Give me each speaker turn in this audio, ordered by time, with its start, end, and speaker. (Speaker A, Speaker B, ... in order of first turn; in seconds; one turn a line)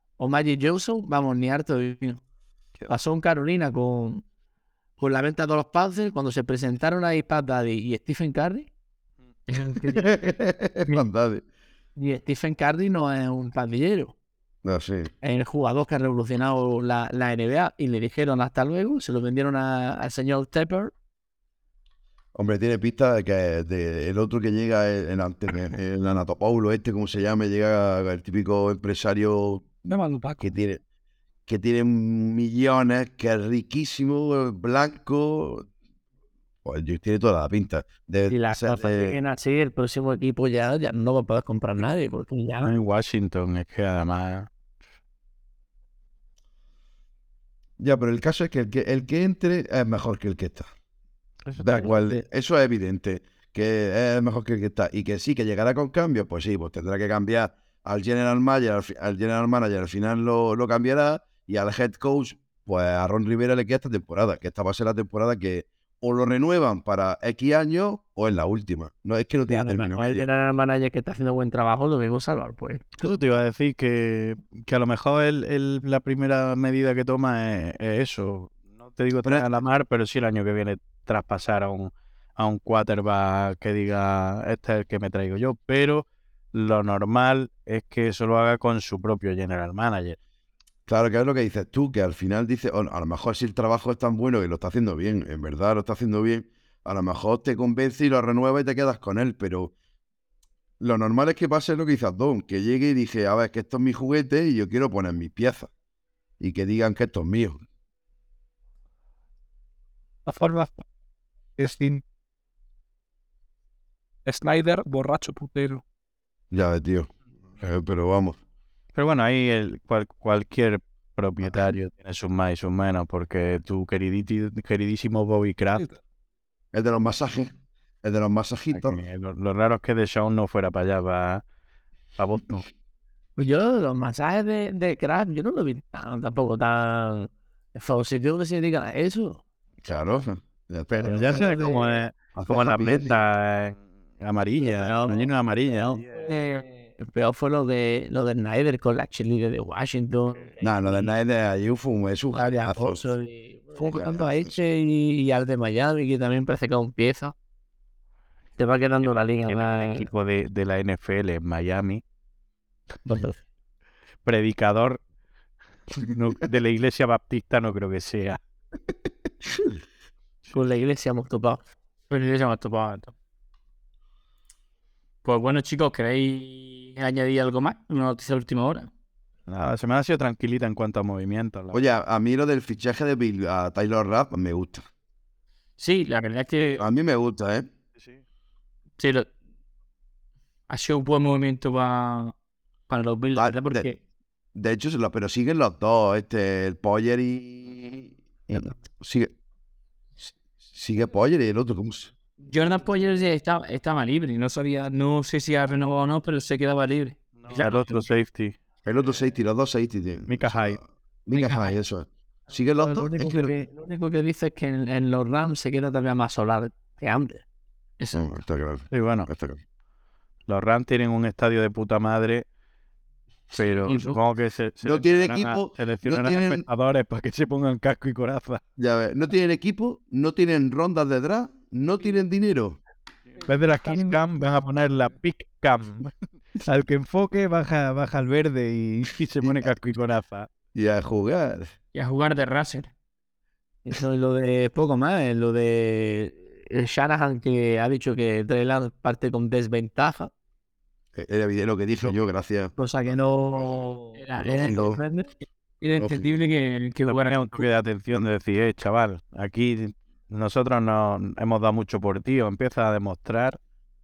Speaker A: 0.2-2.2
Speaker A: 2.9-4.2
Speaker A: 5.0-8.7
Speaker B: 9.5-10.0
Speaker C: 9.9-11.4
Speaker A: 11.9-14.1
Speaker C: 14.6-15.1
Speaker A: 15.2-20.9
Speaker C: 22.3-29.8
Speaker D: 29.9-30.5
Speaker C: 30.4-30.8
Speaker C: 31.5-35.7
Speaker C: 36.6-39.1
Speaker A: 38.3-42.7
Speaker E: 42.6-44.5
Speaker C: 47.8-50.7
Speaker E: 51.5-51.9
Speaker C: 51.5-70.2
Speaker A: 69.5-73.1
Speaker E: 73.0-90.2
Speaker C: 90.9-99.7
Speaker C: 100.8-105.7
Speaker C: 106.4-107.6
Speaker D: 110.2-110.8
Speaker D: 111.6-112.0
Speaker D: 114.2-115.8
Speaker C: 116.5-118.4
Speaker E: 118.9-125.8
Speaker C: 126.7-127.5
Speaker C: 128.0-129.0
Speaker E: 128.7-131.4
Speaker E: 132.2-132.7
Speaker A: 133.4-139.4
Speaker C: 139.8-141.7
Speaker A: 141.0-141.8
Speaker E: 141.0-146.2
Speaker C: 142.3-143.2
Speaker A: 146.2-151.1
Speaker C: 150.6-153.0
Speaker A: 152.3-157.3
Speaker C: 153.9-154.5
Speaker A: 158.6-160.1
Speaker E: 159.0-162.0
Speaker A: 163.0-163.4
Speaker E: 164.2-165.0
Speaker E: 165.9-168.4
Speaker A: 170.5-171.6
Speaker B: 172.1-173.1
Speaker B: 175.2-178.9
Speaker E: 179.5-181.8
Speaker C: 181.7-184.8
Speaker B: 185.8-186.8
Speaker C: 186.8-187.7
Speaker B: 189.0-189.3
Speaker B: 190.7-192.3
Speaker B: 192.9-193.9
Speaker C: 193.3-193.9
Speaker C: 194.5-199.3
Speaker C: 200.7-202.1
Speaker B: 202.4-208.0
Speaker E: 207.4-208.6
Speaker C: 208.8-213.5
Speaker E: 210.3-210.8
Speaker B: 211.3-211.7
Speaker A: 212.8-217.4
Speaker B: 218.0-218.2
Speaker C: 218.1-219.6
Speaker E: 218.9-219.3
Speaker E: 220.5-222.4
Speaker E: 223.5-228.6
Speaker C: 224.8-226.6
Speaker C: 228.8-232.8
Speaker E: 233.3-240.5
Speaker C: 239.4-239.7
Speaker C: 240.7-241.7
Speaker B: 241.9-242.9
Speaker A: 243.8-250.3
Speaker C: 251.1-252.7
Speaker A: 252.8-255.3
Speaker B: 254.2-254.9
Speaker C: 254.4-255.0
Speaker B: 255.8-257.6
Speaker C: 256.0-256.2
Speaker E: 257.1-263.6